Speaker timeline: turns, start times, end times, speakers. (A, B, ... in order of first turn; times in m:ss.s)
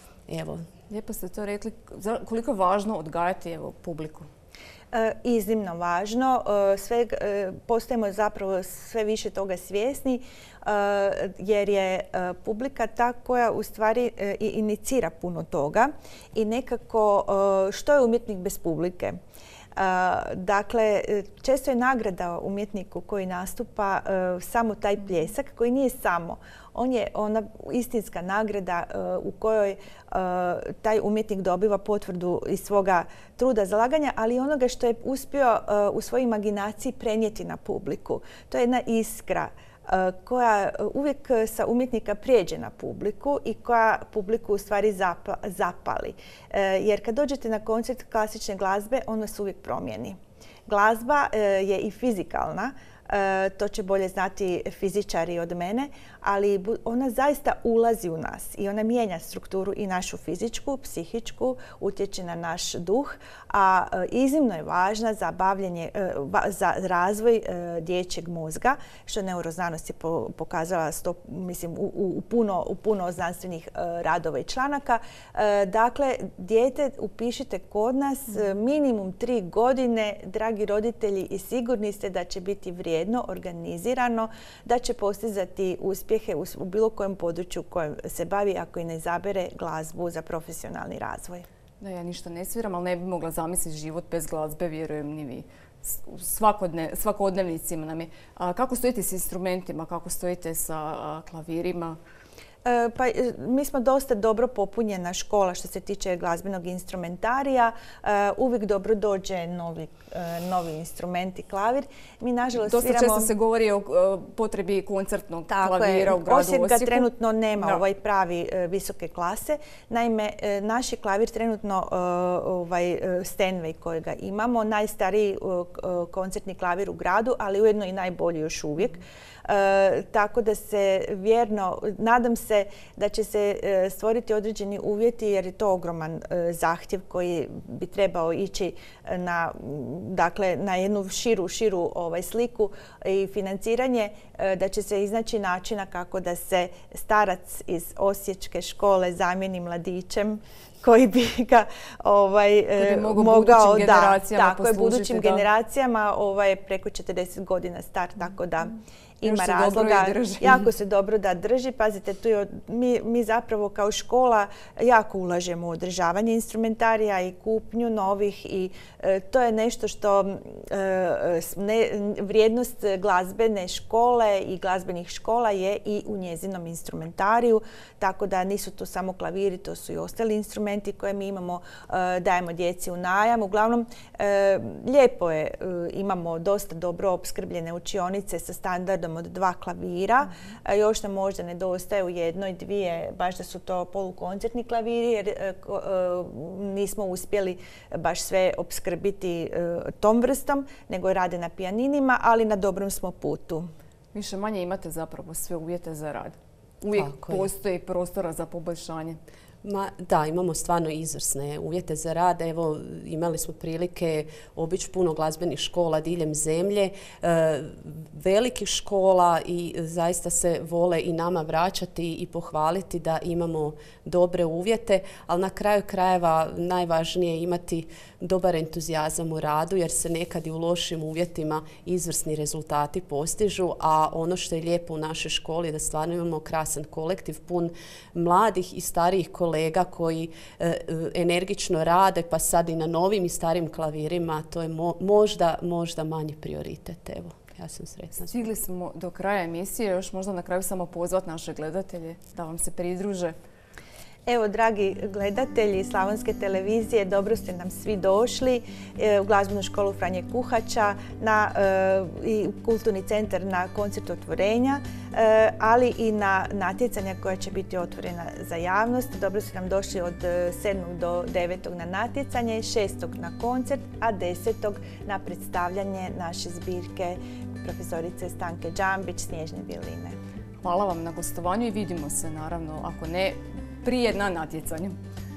0:00.3-0:00.6 A
0:00.9-0:04.3 B
0:04.9-0:19.2 C
0:19.8-1:31.4 C
1:31.8-1:42.0 B
1:42.6-1:53.3 C
1:52.6-1:57.8 B
1:55.5-3:23.7 C
2:32.8-2:35.4 B
2:39.2-2:40.7 B
3:24.1-3:29.2 B
3:26.9-3:27.5 A
3:29.6-4:08.4 A
4:08.2-4:13.3 B
4:14.2-4:40.2 C
4:40.6-4:45.0 B